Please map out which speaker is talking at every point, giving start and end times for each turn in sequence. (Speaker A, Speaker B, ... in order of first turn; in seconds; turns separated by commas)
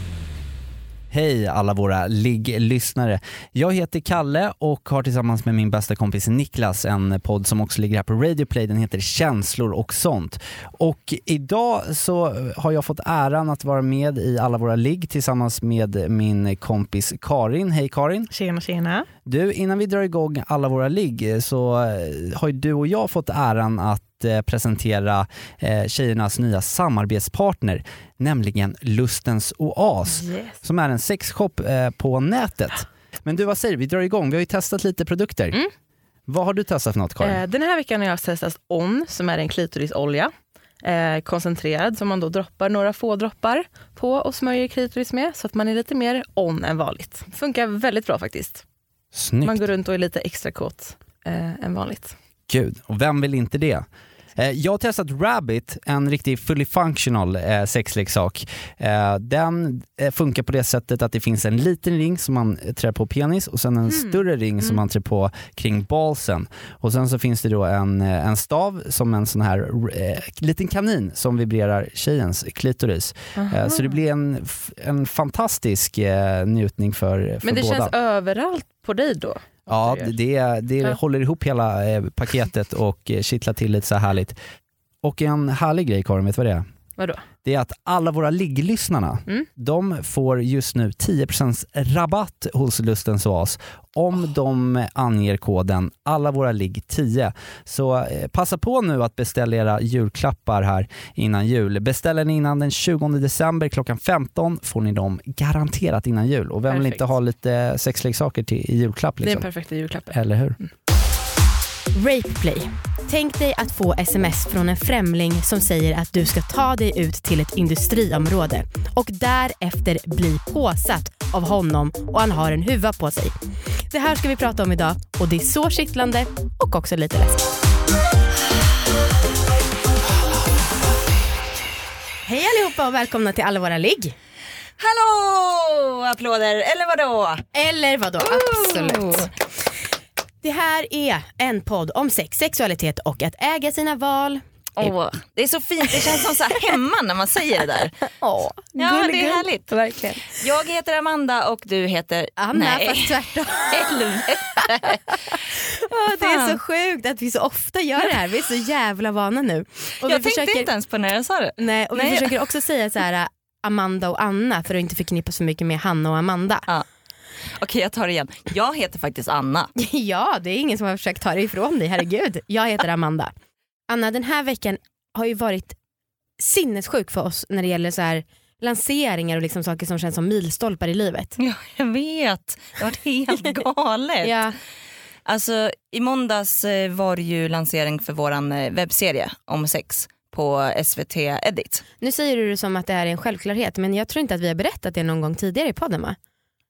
Speaker A: 1.1-18.3, Speaker B: 18.3-19.1, Speaker A: 19.2-35.6, Speaker B: 30.1-30.6, Speaker A: 36.3-37.4, Speaker B: 37.2-48.6, Speaker A: 49.1-49.7, Speaker B: 49.4-52.1, Speaker A: 52.5-77.9, Speaker B: 73.3-74.0, Speaker B: 77.4-80.1, Speaker A: 79.7-84.3, Speaker A: 85.0-86.6, Speaker B: 87.0-87.2, Speaker A: 87.4-109.5, Speaker B: 106.7-107.1, Speaker B: 109.2-110.6, Speaker A: 110.1-110.5, Speaker C: 111.9-127.5, Speaker C: 132.2-134.1, Speaker D: 134.8-137.4, Speaker C: 137.5-139.3, Speaker D: 138.2-139.3, Speaker C: 140.4-144.4, Speaker D: 144.8-148.0, Speaker C: 146.2-146.6, Speaker C: 148.2-150.2, Speaker B: 148.6-150.1, Speaker D: 148.8-149.7, Speaker D: 150.3-155.4, Speaker C: 152.4-154.0, Speaker C: 155.9-160.7, Speaker D: 156.1-156.6, Speaker D: 160.0-162.3, Speaker C: 161.6-166.7, Speaker D: 167.6-169.7, Speaker C: 169.8-173.3, Speaker C: 173.9-175.8, Speaker C: 176.4-181.3, Speaker D: 181.4-184.4, Speaker C: 184.2-184.6, Speaker D: 185.2-191.8, Speaker C: 192.0-196.2